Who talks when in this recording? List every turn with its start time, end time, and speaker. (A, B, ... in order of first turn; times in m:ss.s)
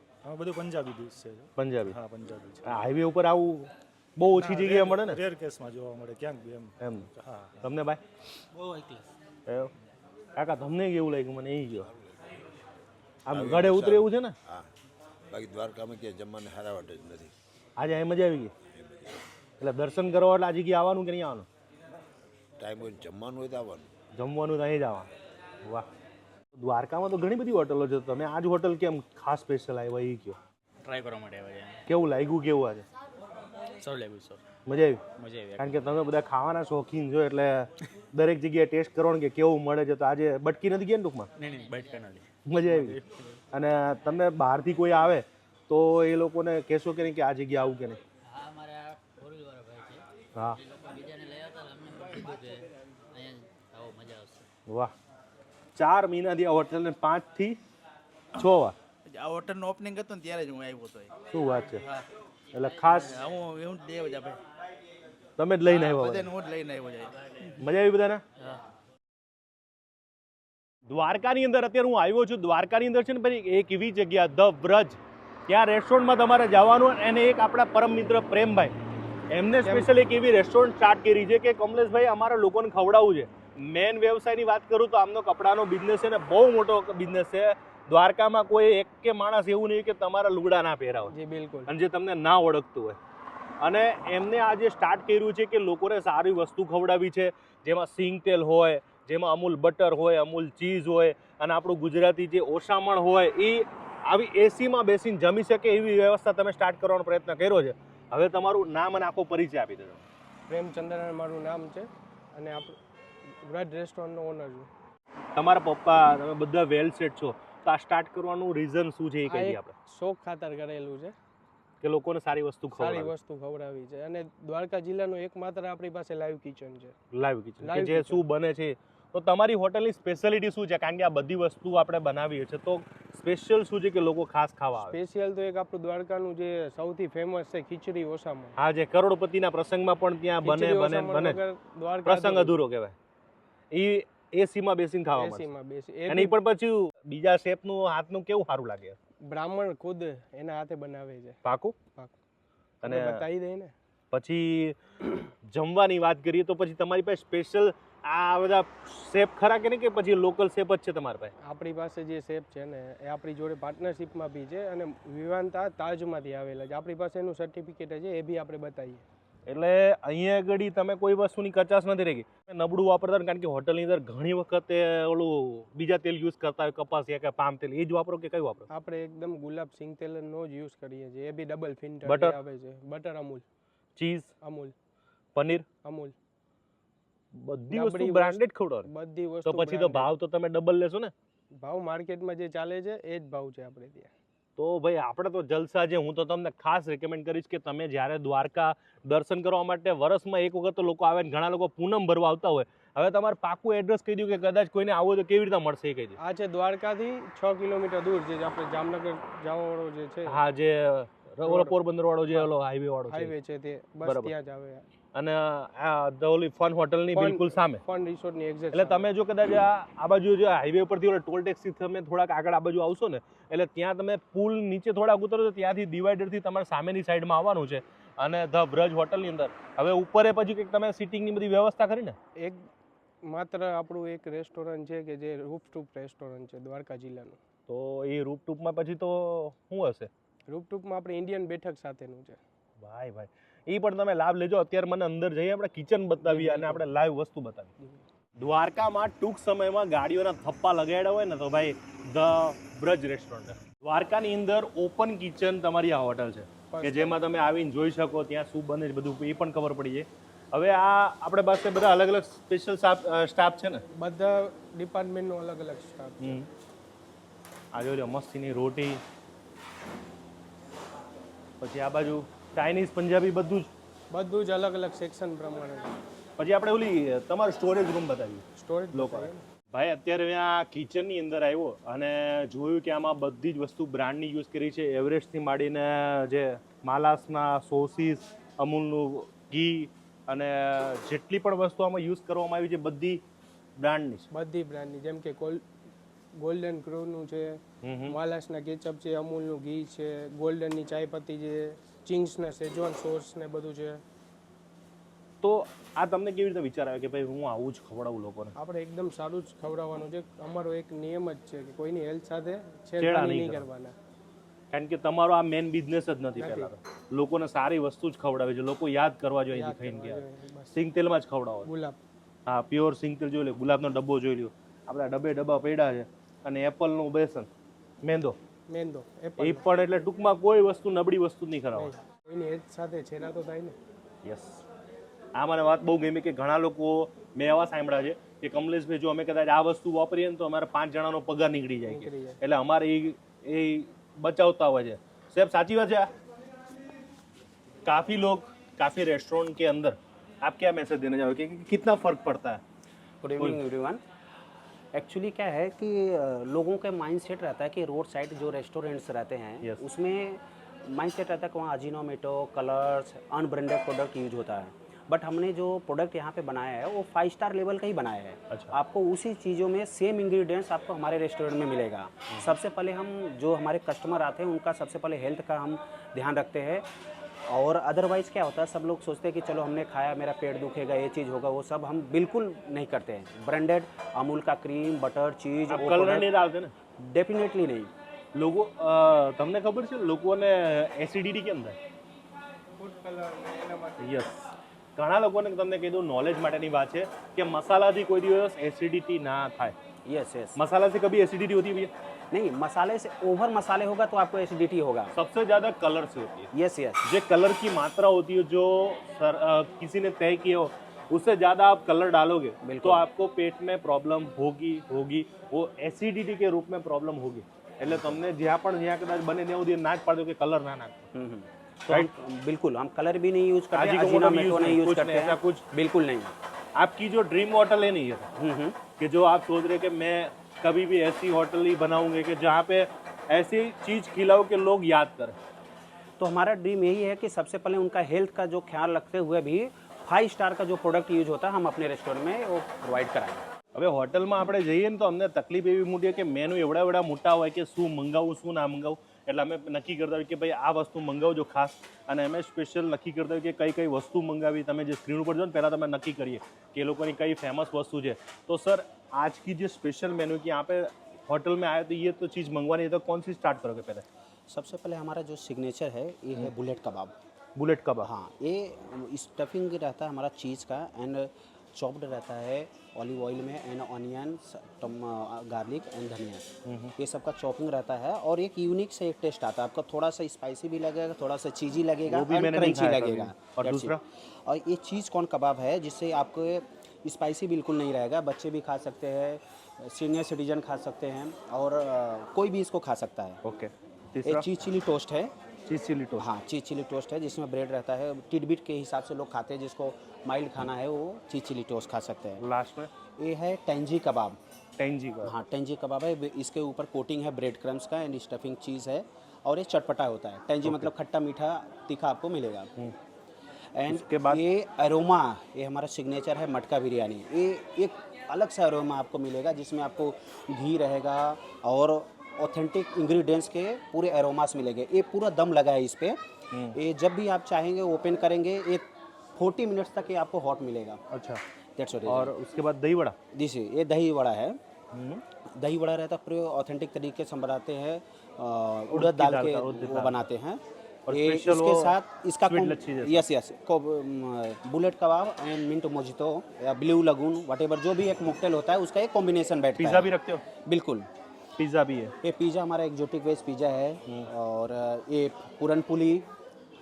0:00.2-0:03.0 A
0:01.6-0:02.0 B
0:02.7-0:05.2 B
0:04.4-0:07.6 A
0:06.8-0:07.1 B
0:07.6-0:08.0 B
0:10.4-0:11.9 B
0:13.3-0:14.4 B
0:13.3-0:14.7 C
0:15.3-0:17.3 C
0:17.8-0:18.5 B
0:18.8-0:19.1 C
0:19.6-0:21.5 B
0:22.6-0:23.9 C
0:24.2-0:25.1 B
0:26.6-0:30.4 B
0:30.9-0:31.7 D
0:31.9-0:32.8 B
0:33.8-0:34.4 D
0:34.7-0:35.0 B
0:35.2-0:35.8 D
0:35.6-0:41.3 B
0:41.4-0:42.2 D
0:41.5-0:42.0 E
0:42.5-0:43.0 B
0:42.8-0:43.2 D
0:43.5-0:48.0 B
0:48.3-0:50.0 E
0:50.3-0:50.6 B
0:50.6-0:54.5 E
0:54.7-0:54.9 B
0:55.8-0:57.6 B
0:58.4-0:58.8 B
0:59.1-1:01.1 F
1:01.3-1:01.8 B
1:02.5-1:03.2 B
1:02.6-1:02.9 E
1:03.1-1:04.4 F
1:03.2-1:04.4 D
1:05.4-1:06.4 B
1:05.8-1:07.1 D
1:05.9-1:07.1 F
1:07.6-1:08.2 B
1:10.9-1:18.8 B
1:19.3-1:31.1 B
1:31.1-1:31.7 G
1:31.7-1:33.0 B
1:33.6-1:50.1 B
1:50.5-1:52.8 G
1:53.4-1:54.7 G
1:55.4-1:59.7 B
1:59.3-2:01.2 G
2:01.8-2:03.1 B
2:02.8-2:06.9 G
2:07.1-2:15.0 B
2:07.6-2:08.2 G
2:14.8-2:18.6 G
2:18.6-2:21.4 B
2:20.4-2:22.6 G
2:22.0-2:23.0 B
2:23.7-2:25.5 B
2:25.1-2:26.4 G
2:26.1-2:29.0 B
2:29.2-2:32.1 G
2:31.4-2:31.8 B
2:32.8-2:33.7 G
2:32.8-2:33.2 B
2:34.1-2:41.3 B
2:41.4-2:49.0 G
2:49.5-2:58.7 B
2:58.7-3:03.4 G
3:02.0-3:02.4 B
3:04.0-3:04.3 B
3:04.4-3:04.8 G
3:05.4-3:05.6 B
3:05.8-3:06.2 G
3:07.3-3:08.9 B
3:07.7-3:10.1 G
3:09.4-3:11.1 B
3:11.6-3:14.1 G
3:14.6-3:26.2 B
3:26.2-3:30.4 G
3:30.3-3:33.3 B
3:31.4-3:31.8 G
3:33.1-3:34.9 G
3:34.0-3:34.3 B
3:35.1-3:37.8 B
3:37.1-3:39.1 G
3:38.7-3:52.2 B
3:52.4-3:52.7 G
3:53.3-3:57.4 G
3:57.7-4:00.1 B
4:00.5-4:02.4 G
4:02.8-4:07.7 B
4:06.2-4:06.8 G
4:08.4-4:23.8 B
4:16.7-4:17.2 G
4:24.0-4:26.4 G
4:26.2-4:26.5 B
4:27.7-4:29.0 B
4:31.6-4:33.7 B
4:34.1-4:36.0 G
4:36.4-4:53.2 B
4:38.6-4:39.4 G
4:53.8-4:54.3 B
4:54.3-4:55.6 G
4:56.4-5:04.0 G
4:57.8-4:58.2 B
5:05.4-5:08.6 B
5:08.6-5:14.0 G
5:13.0-5:13.7 B
5:14.7-5:21.7 B
5:16.4-5:16.7 G
5:19.5-5:20.8 G
5:21.7-5:22.0 G
5:22.5-5:27.5 B
5:28.0-5:28.4 B
5:28.7-5:29.6 G
5:29.4-5:31.9 B
5:31.8-5:33.8 G
5:34.2-5:34.6 B
5:35.4-5:46.1 B
5:41.8-5:42.4 G
5:47.8-5:52.6 B
5:53.2-5:54.0 H
5:54.9-6:16.9 H
6:08.5-6:08.8 B
6:17.5-6:26.3 H
6:25.7-6:26.7 B
6:27.0-6:27.9 H
6:28.3-6:31.8 B
6:32.8-6:34.2 G
6:34.0-6:34.4 B
6:35.0-6:39.8 B
6:40.1-6:40.6 H
6:40.6-6:41.9 B
6:42.3-6:45.1 H
6:45.2-6:46.5 B
6:46.5-6:47.1 H
6:47.0-7:01.1 B
6:52.6-6:53.1 H
6:57.9-6:58.2 H
7:01.1-7:06.3 H
7:03.7-7:05.6 B
7:06.8-7:08.3 B
7:08.4-7:08.8 H
7:09.0-7:15.4 B
7:16.2-7:23.4 H
7:23.8-7:44.0 B
7:44.5-7:47.2 H
7:47.6-7:48.1 B
7:48.0-8:13.4 H
7:56.6-7:56.9 B
8:02.1-8:04.0 B
8:13.4-8:14.5 B
8:14.2-8:15.3 H
8:15.7-8:16.3 B
8:16.2-8:22.4 H
8:22.4-8:22.9 B
8:23.2-8:24.4 H
8:24.8-8:25.4 B
8:25.2-8:32.7 H
8:30.6-8:30.9 B
8:33.8-8:46.2 H
8:33.9-8:34.4 B
8:46.7-8:51.0 H
8:51.1-8:51.4 B
8:51.8-8:52.3 H
8:52.1-8:53.2 B
8:53.3-8:54.6 H
8:54.9-8:55.2 B
8:55.6-9:10.1 H
8:58.9-9:00.3 B
9:01.1-9:03.2 B
9:09.8-9:10.4 B
9:10.6-9:11.1 H
9:11.6-9:12.1 B
9:12.2-9:16.3 H